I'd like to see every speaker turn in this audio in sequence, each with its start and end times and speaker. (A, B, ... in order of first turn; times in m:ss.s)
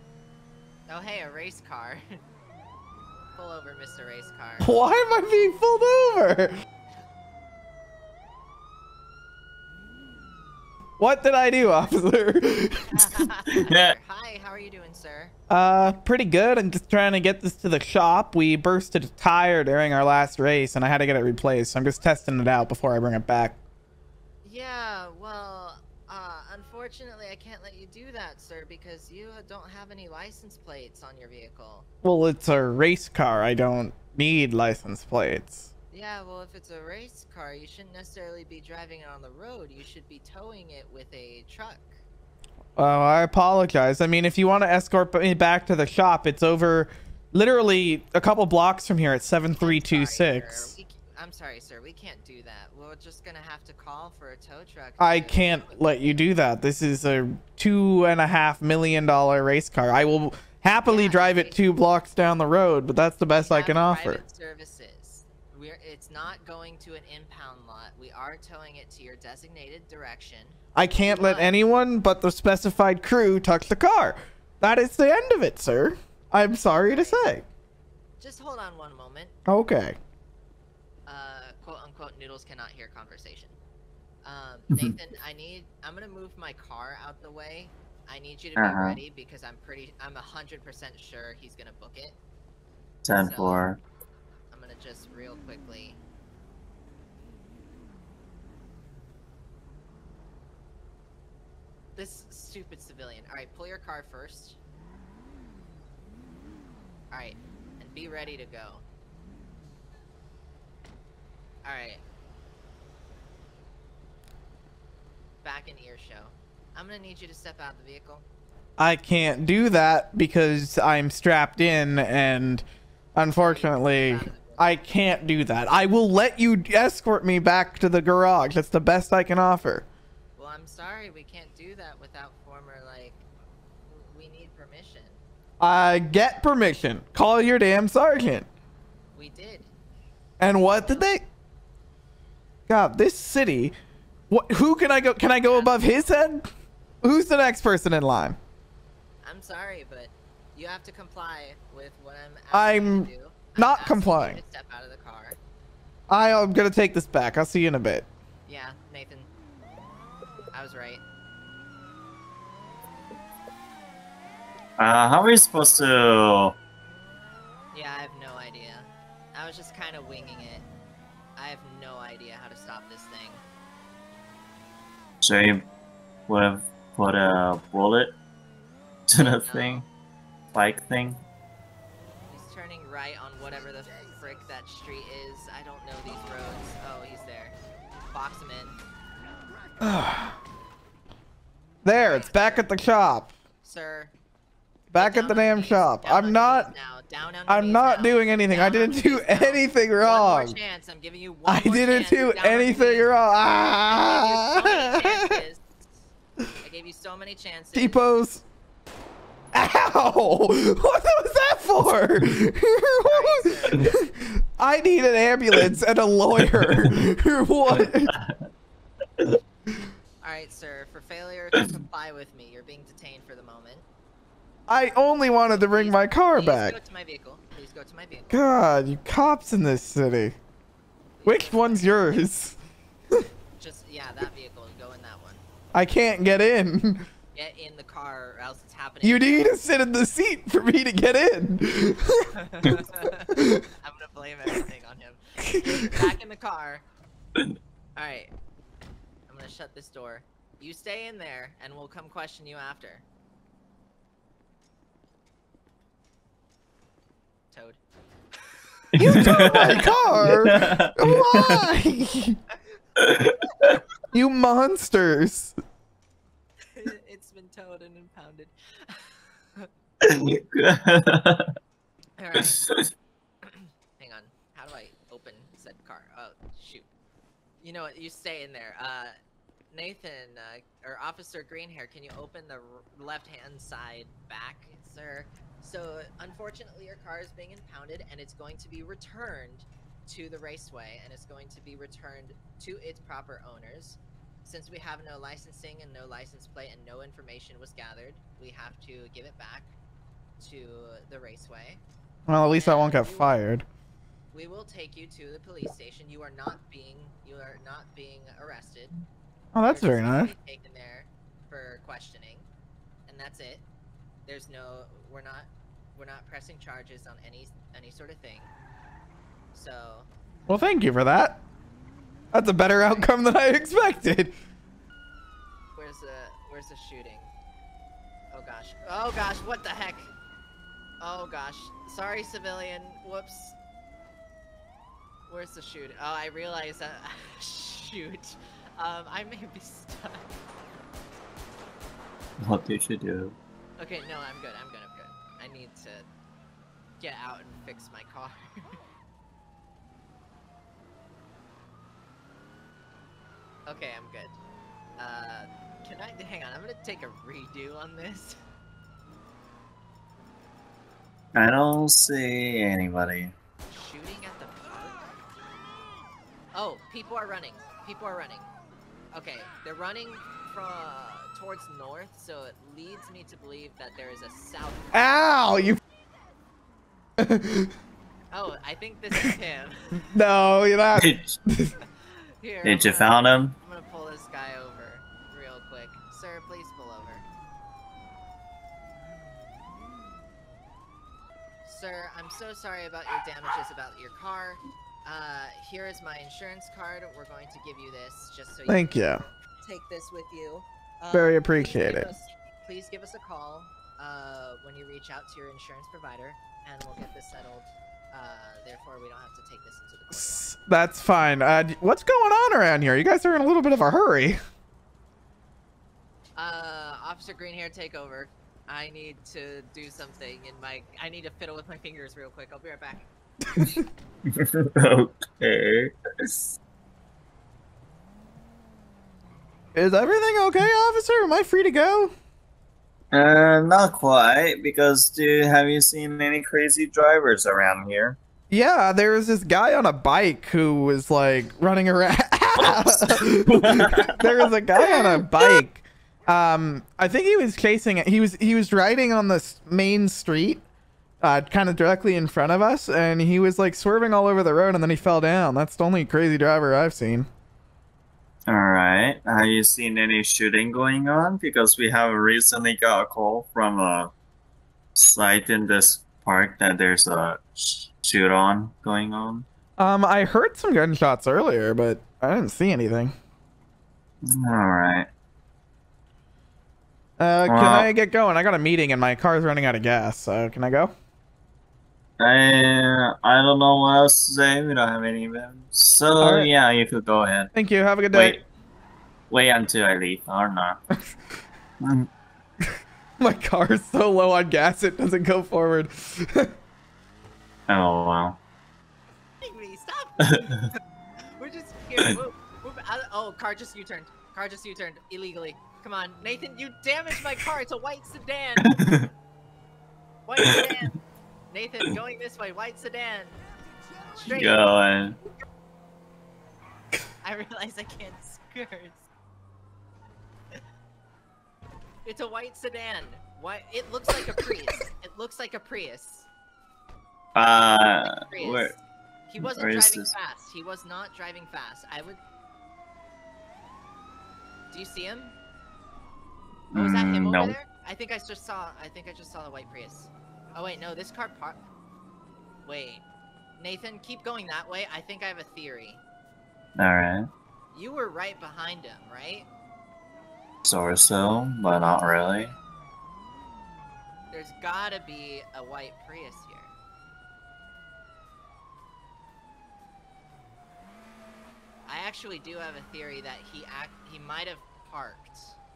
0:00.9-0:02.0 A
0:03.3-0:04.7 A
0:04.6-0:06.5 B
0:11.0-0:13.3 B
0:12.9-0:15.3 A
0:13.5-0:14.0 C
0:15.5-0:23.6 B
0:24.4-0:31.9 A
0:32.0-0:35.7 B
0:35.9-0:41.9 A
0:42.8-0:50.7 B
0:49.6-0:56.2 A
0:55.0-1:04.2 B
1:00.9-1:01.6 A
1:03.4-1:11.6 A
1:10.7-1:17.4 B
1:16.7-1:17.3 A
1:18.2-1:19.3 A
1:19.5-1:20.0 B
1:21.1-1:23.6 A
1:24.2-1:32.2 A
1:28.6-1:29.0 C
1:33.0-1:33.8 C
1:33.1-1:33.6 A
1:34.5-1:36.0 A
1:42.0-1:44.6 A
1:47.1-1:48.8 A
1:51.6-1:52.0 A
1:55.4-1:58.2 A
1:58.8-2:02.6 B
2:03.2-2:09.8 B
2:03.3-2:04.8 A
2:10.4-2:13.2 A
2:13.9-2:15.2 A
2:15.6-2:18.5 B
2:19.1-2:19.7 A
2:20.4-2:21.2 B
2:20.8-2:21.0 A
2:22.7-2:23.7 B
2:24.3-2:26.4 B
2:25.4-2:25.9 A
2:27.0-2:28.4 B
2:29.2-2:35.4 A
2:32.5-2:34.4 B
2:36.1-2:38.0 B
2:38.4-2:39.3 A
2:40.5-2:41.0 A
2:44.8-2:46.6 C
2:47.7-2:50.7 A
2:51.4-2:53.4 A
2:55.2-2:55.6 C
2:56.3-2:58.2 C
2:59.1-2:59.8 C
2:59.2-2:59.8 A
3:00.5-3:01.2 C
3:02.3-3:07.6 A
3:08.1-3:08.8 A
3:09.8-3:10.3 B
3:11.8-3:13.3 B
3:12.0-3:12.7 A
3:13.6-3:14.1 A
3:14.9-3:16.7 B
3:15.0-3:23.1 A
3:17.5-3:20.6 B
3:21.4-3:25.4 B
3:23.9-3:25.6 A
3:26.6-3:28.0 A
3:27.7-3:28.4 B
3:29.5-3:38.1 B
3:33.0-3:34.0 A
3:37.7-3:38.4 C
3:40.2-3:43.8 A
3:44.7-3:46.8 B
3:45.5-3:48.4 A
3:48.3-3:50.4 B
3:51.1-3:52.2 A
3:51.2-3:52.6 B
3:53.6-3:55.4 A
3:55.7-3:57.0 B
3:57.3-3:59.5 A
3:59.0-4:02.3 B
4:02.4-4:06.8 A
4:03.0-4:03.6 B
4:08.0-4:08.3 A
4:09.3-4:13.0 A
4:17.5-4:17.8 A
4:18.9-4:21.6 C
4:19.0-4:22.4 B
4:19.1-4:20.1 A
4:23.0-4:23.4 C
4:24.1-4:25.5 B
4:26.7-4:29.7 A
4:30.0-4:31.5 C
4:32.2-4:32.6 A
4:32.3-4:32.8 C
4:33.4-4:36.9 A
4:37.6-4:39.1 A
4:39.7-4:59.7 A
5:00.4-5:01.8 A
5:02.3-5:03.6 B
5:02.5-5:03.3 A
5:04.3-5:09.0 A
5:09.5-5:10.3 B
5:09.6-5:12.5 A
5:13.1-5:13.6 A
5:14.2-5:18.5 A
5:19.5-5:20.1 A
5:20.5-5:21.4 B
5:22.3-5:24.3 B
5:22.6-5:23.1 A
5:25.7-5:27.3 A
5:28.3-5:30.1 A
5:31.0-5:33.6 A
5:35.3-5:40.4 A
5:42.4-5:43.4 C
5:43.8-5:46.1 A
5:47.0-5:48.8 A
5:53.7-5:54.4 A
5:55.0-5:58.4 A
6:01.3-6:03.3 C
6:03.7-6:05.2 A
6:06.5-6:08.5 A
6:09.1-6:15.1 A
6:14.9-6:15.8 B
6:17.2-6:17.7 B
6:18.3-6:20.0 A
6:20.1-6:21.7 B
6:20.9-6:21.3 C
6:22.0-6:27.2 A
6:22.6-6:23.6 C
6:31.6-6:50.5 A
6:38.7-6:39.2 B
6:41.1-6:42.1 B
6:50.1-6:54.4 B
6:56.4-7:03.8 A
7:04.3-7:05.9 C
7:09.7-7:12.1 B
7:13.1-7:18.2 C
7:18.5-7:30.6 B
7:22.6-7:24.2 C
7:31.2-7:37.3 B
7:38.5-7:44.1 C
7:44.9-7:49.4 C
7:49.8-7:53.1 B
7:54.2-7:55.1 C
7:57.2-8:00.9 B
7:57.4-7:57.9 C
8:02.2-8:07.5 C
8:06.2-8:06.5 B
8:07.5-8:08.4 B
8:08.1-8:08.4 C
8:09.3-8:10.8 C
8:11.8-8:12.1 C
8:12.6-8:16.5 B
8:17.7-8:18.4 C
8:19.4-8:20.8 A
8:21.4-8:28.8 A
8:28.7-8:29.0 C
8:30.2-8:31.0 A
8:31.5-8:33.4 A
8:34.1-8:34.7 A
8:34.3-8:35.2 C
8:37.2-8:39.1 A
8:42.0-8:46.3 A
8:47.3-8:48.8 C
8:48.0-8:52.2 A
8:49.4-8:50.1 C
8:54.7-8:55.4 A
8:56.7-8:57.6 C
8:56.7-9:01.6 A
9:02.6-9:03.0 A
9:03.6-9:06.0 A
9:06.8-9:07.3 C
9:07.7-9:09.5 A
9:10.6-9:12.5 C
9:11.6-9:12.5 A
9:14.3-9:16.7 A
9:21.9-9:25.6 A